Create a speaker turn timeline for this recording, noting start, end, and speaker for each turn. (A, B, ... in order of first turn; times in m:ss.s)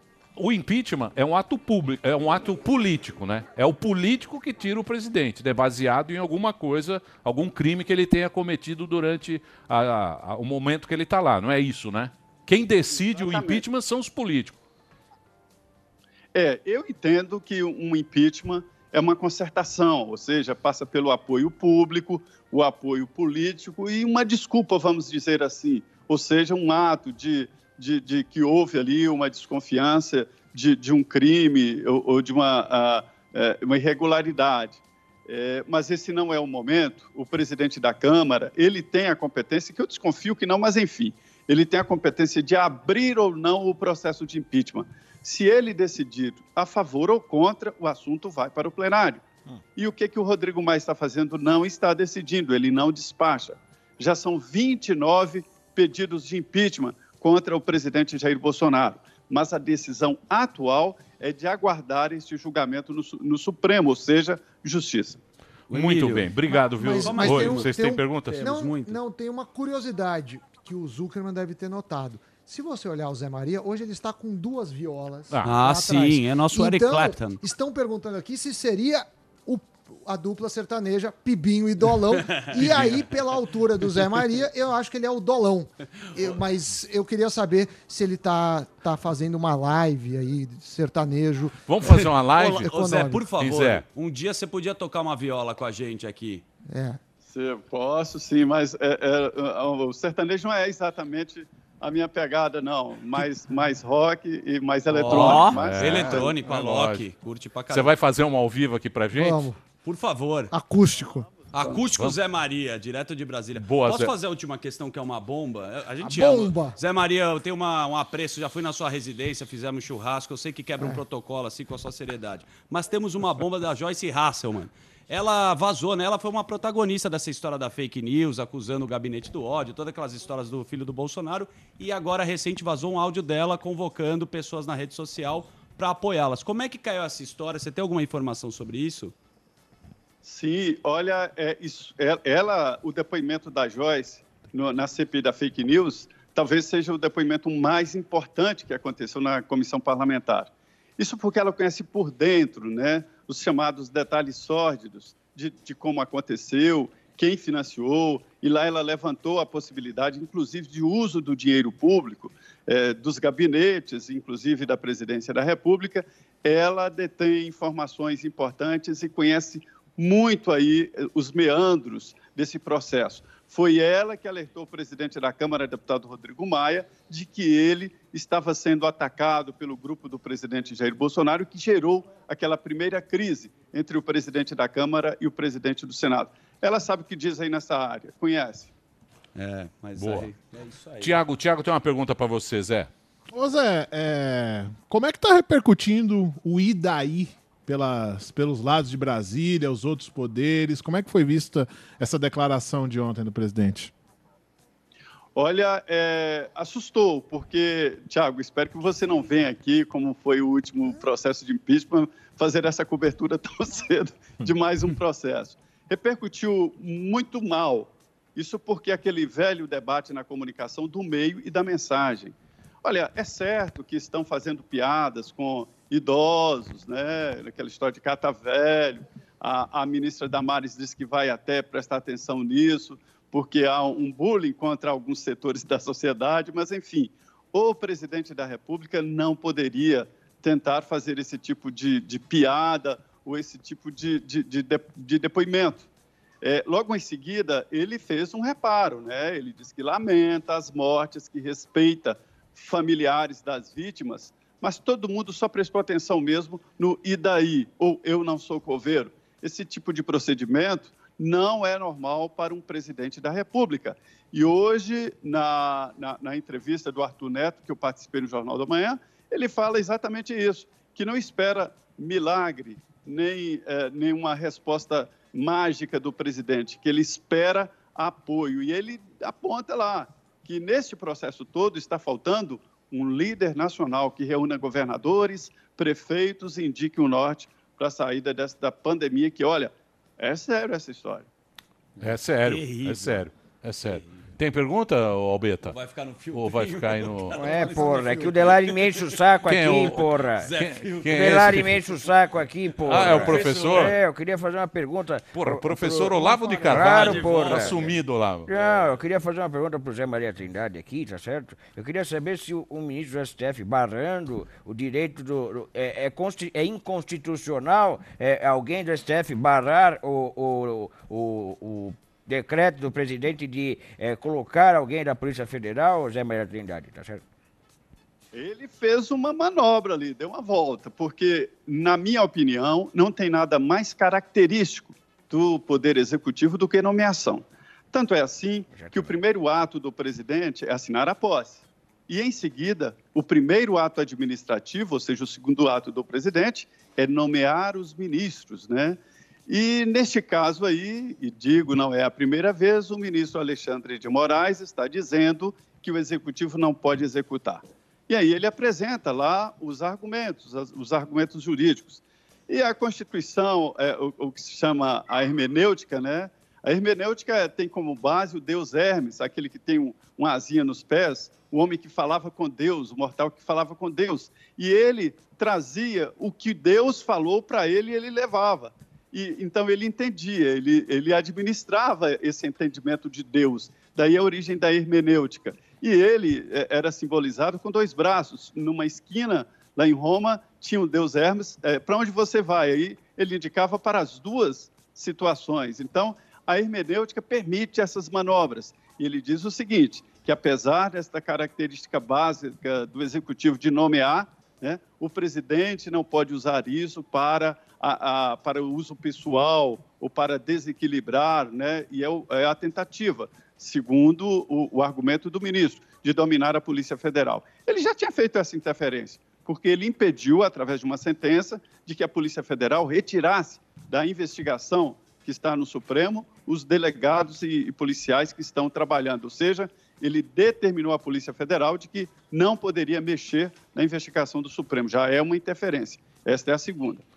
0:00.4-0:14.6 A
0:13.1-0:13.6 B
0:16.3-0:49.2 B
0:49.8-1:05.2 B
1:05.7-1:07.7 C
1:05.7-1:08.5 A
1:06.5-1:33.3 D
1:08.2-1:09.0 C
1:15.3-1:15.6 A
1:15.4-1:17.4 C
1:22.4-1:22.9 C
1:22.6-1:22.9 A
1:31.7-1:32.7 A
1:32.4-1:36.4 C
1:33.4-1:33.8 A
1:36.7-1:37.0 D
1:37.3-1:46.4 B
1:44.9-1:47.9 C
1:45.1-1:47.1 A
1:47.7-1:49.5 A
1:49.1-1:49.6 D
1:49.8-1:50.5 C
1:50.5-1:51.8 D
1:51.5-2:19.1 C
1:53.6-1:54.1 A
1:56.0-1:56.8 D
2:20.2-3:08.7 B
3:09.3-3:11.2 C
3:10.0-3:10.3 A
3:11.0-3:12.9 A
3:13.3-3:23.9 E
3:25.3-4:05.9 B
4:06.4-4:51.3 B
4:52.0-4:55.8 A
4:52.0-4:53.2 C
4:55.6-4:59.2 C
4:56.3-4:57.4 A
4:57.3-5:00.5 F
4:59.4-5:01.9 A
5:00.4-5:01.4 C
5:01.0-5:27.2 F
5:02.8-5:03.9 C
5:02.8-5:04.0 A
5:05.3-5:08.5 A
5:06.5-5:07.8 C
5:28.3-7:17.0 B
5:38.7-5:39.2 F